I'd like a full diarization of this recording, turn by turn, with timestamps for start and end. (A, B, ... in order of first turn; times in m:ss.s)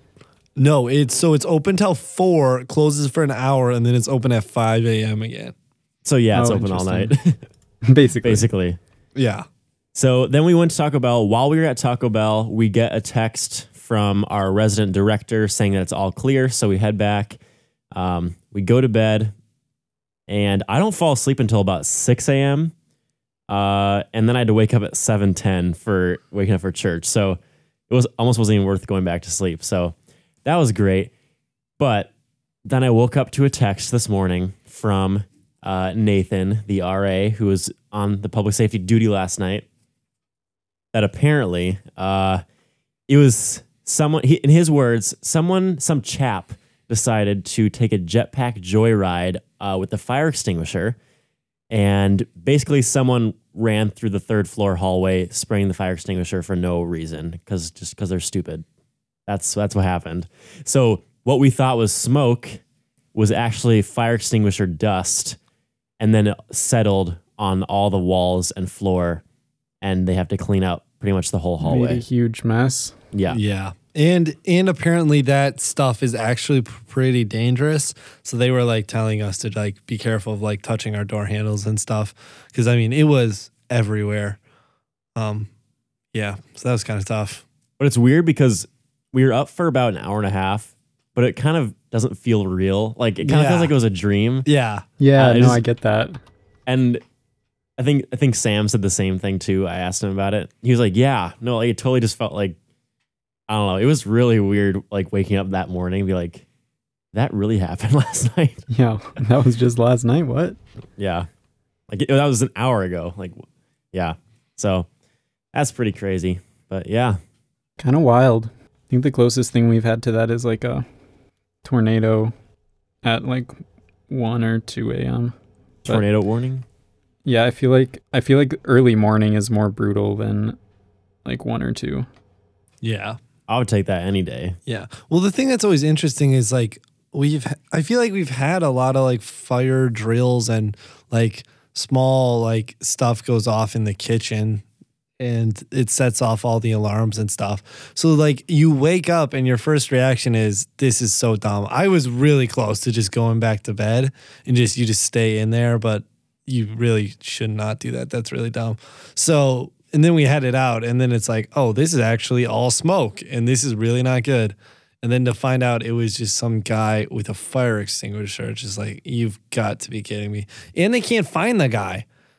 0:00.6-0:05.6 A
0:06.0-0:07.4 B
0:06.4-0:07.1 C
0:07.8-0:08.5 C
0:08.2-0:08.8 B
0:09.2-0:09.4 A
0:10.0-0:17.4 B
0:17.9-0:19.3 B
0:20.3-0:22.7 B
0:23.5-0:31.1 B
0:31.8-0:32.1 B
0:32.7-0:39.6 B
0:40.9-0:42.4 B
0:43.1-0:51.0 B
0:51.7-0:58.6 B
0:59.3-1:02.6 B
1:03.1-1:05.4 B
1:06.0-1:09.2 B
1:09.8-1:12.0 B
1:11.6-1:13.0 C
1:13.1-1:13.4 B
1:13.3-1:24.4 A
1:25.2-1:25.5 A
1:26.1-1:27.4 A
1:27.8-1:34.5 B
1:33.2-1:33.7 A
1:34.4-1:34.8 A
1:35.0-1:36.2 C
1:35.2-1:35.6 B
1:36.7-1:37.0 B
1:37.8-1:42.6 B
1:43.5-1:46.4 B
1:47.1-1:48.6 B
1:48.7-1:50.6 C
1:51.0-1:51.3 B
1:51.9-1:54.9 B
1:55.5-1:57.2 B
1:57.8-2:00.8 C
2:01.6-2:02.3 C
2:03.0-2:03.5 C
2:04.1-2:06.0 C
2:05.8-2:06.6 B
2:07.2-2:10.6 C
2:11.2-2:12.1 C
2:12.8-2:13.2 A
2:13.5-2:14.6 B
2:14.7-2:24.6 A
2:25.2-2:52.1 A